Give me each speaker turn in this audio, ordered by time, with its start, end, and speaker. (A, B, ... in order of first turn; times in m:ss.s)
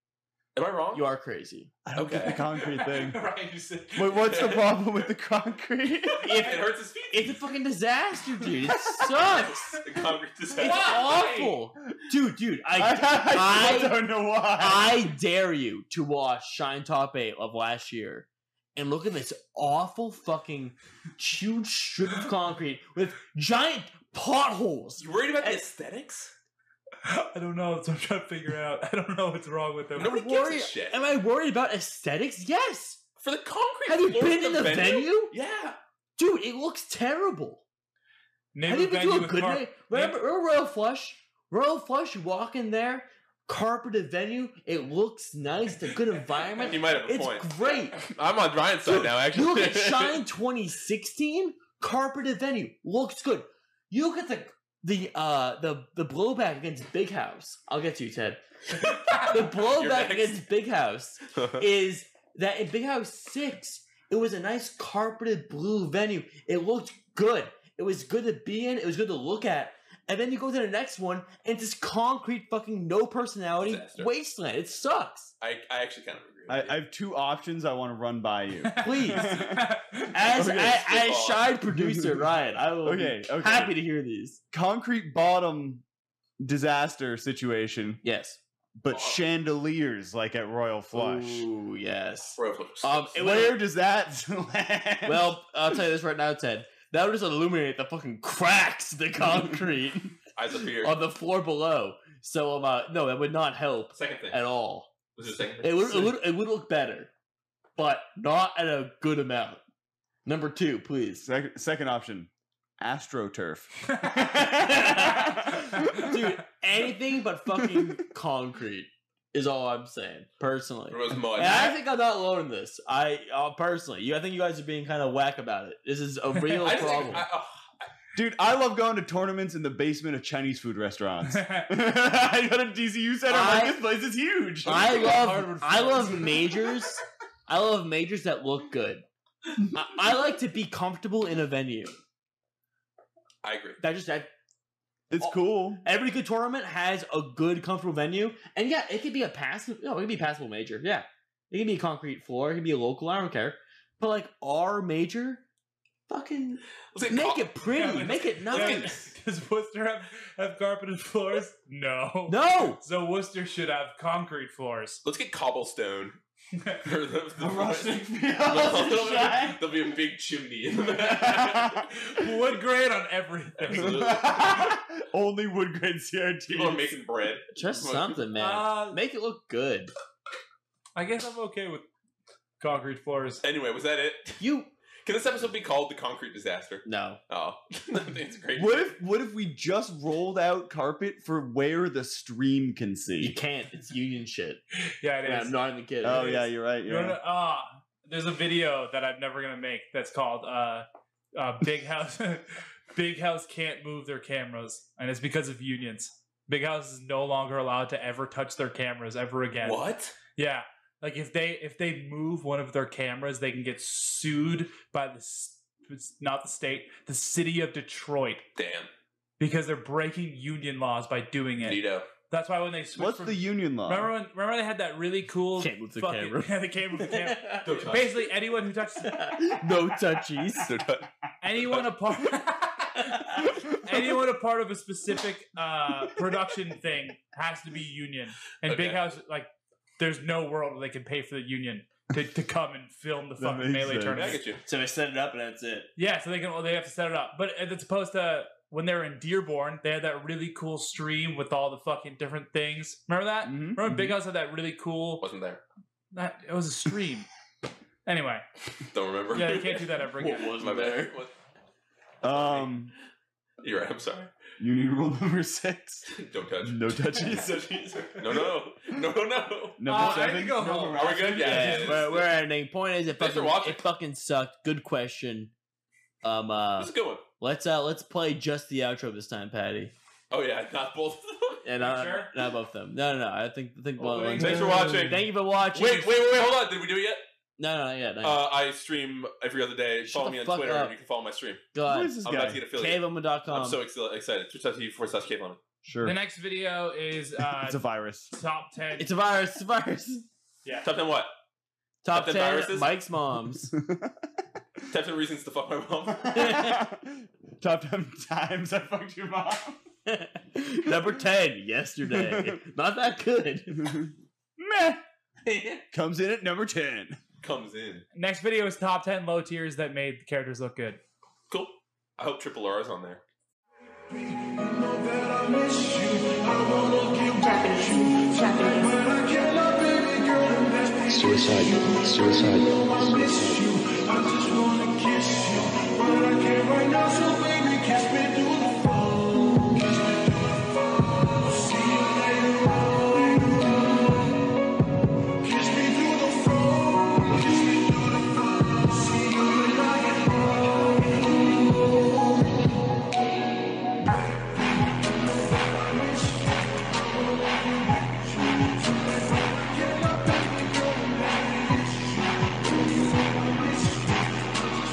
0:00.5-0:01.0 A
0:00.9-0:01.7 B
0:01.8-0:03.2 C
0:01.9-0:02.5 A
0:02.2-0:04.8 D
0:04.0-0:06.4 C
0:04.1-0:04.8 A
0:06.1-0:07.4 A
0:06.2-0:09.8 B
0:08.7-0:09.0 C
0:09.3-0:11.2 A
0:10.5-0:11.6 D
0:10.6-0:14.0 B
0:12.7-0:15.1 C
0:14.6-0:25.6 B
0:25.0-0:26.3 A
0:27.0-0:30.1 D
0:30.0-0:31.0 A
0:30.1-0:33.0 B
0:33.2-0:35.8 A
0:33.9-0:35.3 B
0:36.2-0:37.6 B
0:38.5-0:40.2 D
0:38.6-0:48.0 B
0:46.6-0:50.2 A
0:49.3-0:58.4 B
0:58.8-1:00.4 A
0:59.1-0:59.4 D
0:59.1-1:15.3 B
1:01.3-1:01.6 A
1:13.5-1:14.1 A
1:15.4-1:16.8 A
1:16.5-1:19.7 C
1:18.7-1:20.2 D
1:18.8-1:19.4 B
1:20.1-1:24.4 B
1:20.3-1:20.8 C
1:20.4-1:21.6 A
1:21.7-1:22.2 C
1:22.8-1:23.8 C
1:24.5-1:25.8 C
1:26.4-1:28.0 C
1:28.0-1:28.4 B
1:28.8-1:31.5 C
1:28.9-1:29.2 A
1:30.9-1:33.6 B
1:32.4-1:33.1 A
1:33.2-1:35.4 C
1:35.0-1:40.1 B
1:40.4-1:41.0 A
1:40.8-1:44.9 B
1:43.9-1:44.4 A
1:45.2-1:46.2 A
1:45.6-1:47.1 B
1:47.8-1:49.6 B
1:50.2-1:51.2 B
1:51.2-1:56.1 C
1:54.0-1:54.3 D
1:54.6-2:07.3 B
1:55.2-1:56.2 D
1:57.5-1:58.0 C
2:00.9-2:01.8 A
2:06.5-2:07.9 A
2:08.1-2:15.1 C
2:11.3-2:11.7 D
2:13.3-2:13.8 B
2:14.6-2:19.0 B
2:14.7-2:16.5 D
2:19.7-2:21.9 B
2:23.4-2:23.8 A
2:23.8-2:24.3 B
2:25.1-2:25.8 C
2:25.2-2:35.4 B
2:36.1-2:39.0 B
2:36.9-2:39.1 A
2:37.7-2:45.0 D
2:42.3-2:42.8 B
2:45.0-2:46.2 A
2:46.8-2:52.1 A
2:47.4-2:49.6 C
2:50.9-2:52.1 C
2:52.1-2:54.2 D
2:53.6-2:54.8 A
2:53.7-2:57.0 C
2:56.5-2:58.2 A
2:57.5-2:59.9 B
2:58.4-2:59.0 D
3:00.9-3:01.9 D
3:02.6-3:03.4 D
3:03.4-3:04.4 A
3:04.4-3:04.7 B
3:05.0-3:09.0 A
3:06.8-3:07.2 B
3:08.5-3:13.4 C
3:13.2-3:14.6 B
3:15.0-3:15.6 D
3:15.2-3:16.4 B
3:16.0-3:17.2 C
3:16.1-3:38.5 D
3:29.6-3:30.2 A
3:38.6-3:38.9 A
3:39.4-3:49.6 D
3:41.6-3:42.1 A
3:42.9-3:44.1 C
3:45.6-3:47.9 B
3:47.6-3:48.3 A
3:49.0-3:50.7 B
3:50.6-3:51.9 A
3:51.4-4:04.5 D
3:58.6-3:59.0 A
4:03.4-4:04.4 C
4:04.1-4:04.6 A
4:04.6-4:05.9 B
4:06.0-4:15.2 D
4:13.4-4:14.2 C
4:15.2-4:15.6 A
4:16.1-4:17.3 D
4:18.0-4:18.5 D
4:18.9-4:21.3 A
4:19.3-4:20.6 D
4:20.2-4:21.2 B
4:22.2-4:22.9 C
4:22.2-4:22.8 A
4:23.6-4:24.3 A
4:24.6-4:26.1 C
4:26.1-4:32.3 A
4:26.6-4:27.6 C
4:29.8-4:32.0 C
4:29.8-4:32.1 D
4:31.4-4:35.5 B
4:33.2-4:33.8 A
4:36.2-4:39.9 B
4:36.8-4:37.2 A
4:40.3-4:41.6 A
4:41.6-4:46.1 B
4:41.8-4:42.3 D
4:44.0-4:45.1 D
4:44.1-4:45.2 C
4:44.4-4:47.2 A
4:47.6-4:48.4 B
4:48.2-4:51.6 A
4:50.1-4:50.9 B
4:51.7-4:53.8 B
4:51.9-4:52.6 C
4:52.2-4:55.6 A
4:55.8-4:56.2 C
4:56.0-4:59.1 D
4:57.4-4:58.3 C
4:59.0-5:00.2 B
5:00.6-5:00.9 D
5:00.8-5:01.3 A
5:02.0-5:03.7 B
5:02.1-5:02.9 A
5:03.8-5:04.2 C
5:04.9-5:06.4 A
5:06.1-5:09.8 C
5:06.3-5:06.8 B
5:10.0-5:14.0 B
5:10.9-5:11.2 C
5:12.1-5:12.6 C
5:13.8-5:15.0 C
5:15.4-5:15.8 A
5:15.9-5:17.2 C
5:17.4-5:18.0 A
5:18.1-5:21.0 D
5:21.5-5:23.2 A
5:24.5-5:31.0 E
5:31.1-5:33.8 F
5:33.8-5:39.7 E
5:41.7-5:42.6 E
5:45.5-5:47.6 E
5:49.1-5:50.2 E
5:59.3-6:01.9 E